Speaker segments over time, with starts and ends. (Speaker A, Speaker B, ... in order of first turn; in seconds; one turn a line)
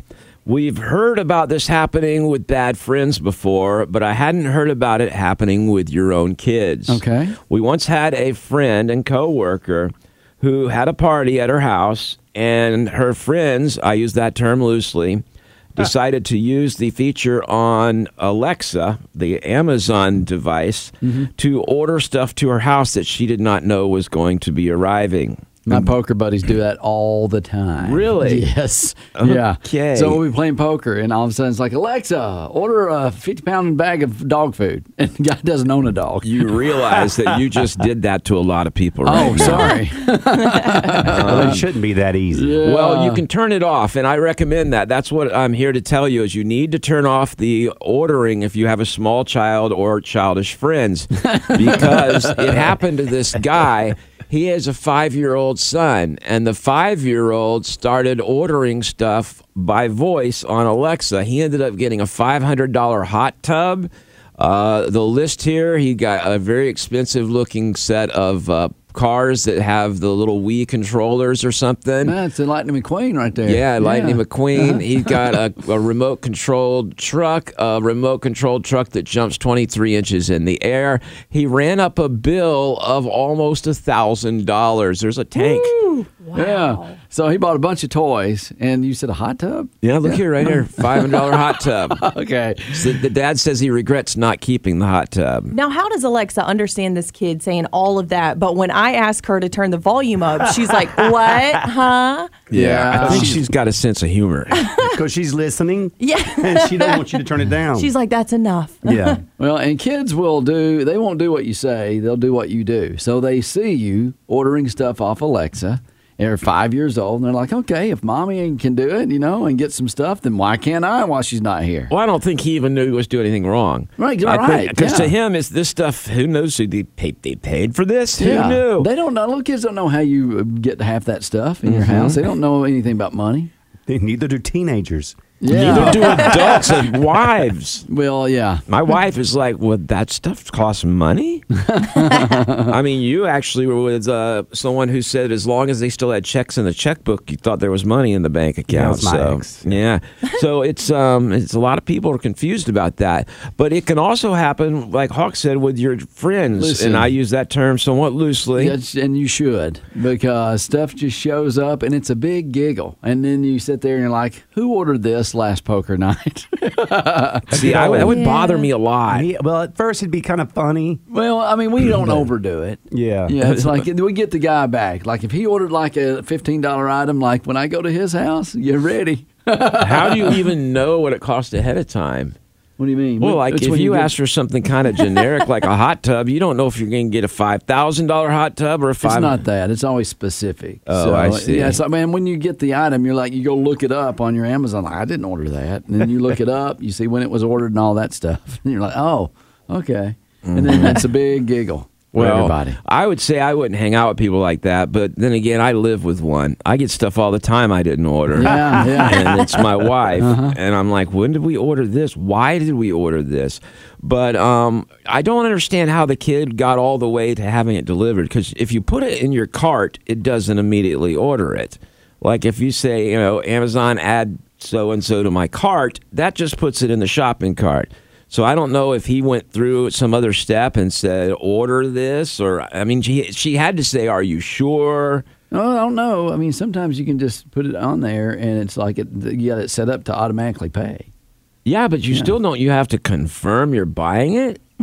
Speaker A: 0.5-15.2
Speaker B: 6.9-7.4
Speaker A: 15.8-25.9
Speaker B: 21.0-21.3
Speaker B: 25.7-36.5
Speaker A: 27.8-28.5
Speaker A: 29.1-30.2
Speaker A: 36.2-39.8
Speaker B: 39.0-41.6
Speaker A: 41.0-41.6
Speaker C: 41.2-42.6
Speaker B: 42.3-43.2
Speaker A: 42.6-72.2
Speaker B: 51.3-52.7
Speaker B: 72.0-75.2
Speaker A: 73.5-85.8
Speaker D: 85.4-87.0
Speaker B: 86.3-93.0
Speaker A: 89.8-92.0
Speaker A: 92.7-95.5
Speaker D: 95.5-102.3
Speaker C: 100.6-101.7
Speaker A: 102.5-104.6
Speaker B: 102.5-103.4
Speaker C: 103.0-103.5
Speaker D: 104.5-104.9
Speaker C: 104.8-107.9
Speaker D: 106.0-109.2
Speaker C: 108.8-109.2
Speaker B: 109.4-121.9
Speaker A: 121.9-128.9
Speaker B: 124.0-125.1
Speaker B: 128.2-133.5
Speaker A: 131.6-132.2
Speaker C: 133.9-136.7
Speaker B: 135.4-136.6
Speaker A: 135.5-137.9
Speaker B: 137.9-138.6
Speaker A: 138.7-141.4
Speaker B: 141.6-142.8
Speaker A: 142.7-158.8
Speaker C: 148.7-149.8
Speaker B: 156.6-157.1
Speaker B: 158.6-167.5
Speaker C: 167.5-168.2
Speaker A: 167.5-169.3
Speaker D: 168.1-168.7
Speaker C: 169.1-171.0
Speaker B: 171.1-180.4
Speaker C: 172.9-173.4
Speaker A: 173.4-173.8
Speaker A: 179.8-182.4
Speaker B: 182.8-184.1
Speaker A: 183.2-189.4
Speaker B: 189.0-202.8
Speaker A: 190.9-191.8
Speaker A: 200.4-201.1
Speaker A: 202.1-235.3
Speaker B: 208.3-209.5
Speaker B: 210.2-210.6
Speaker B: 235.5-241.1
Speaker A: 241.7-244.6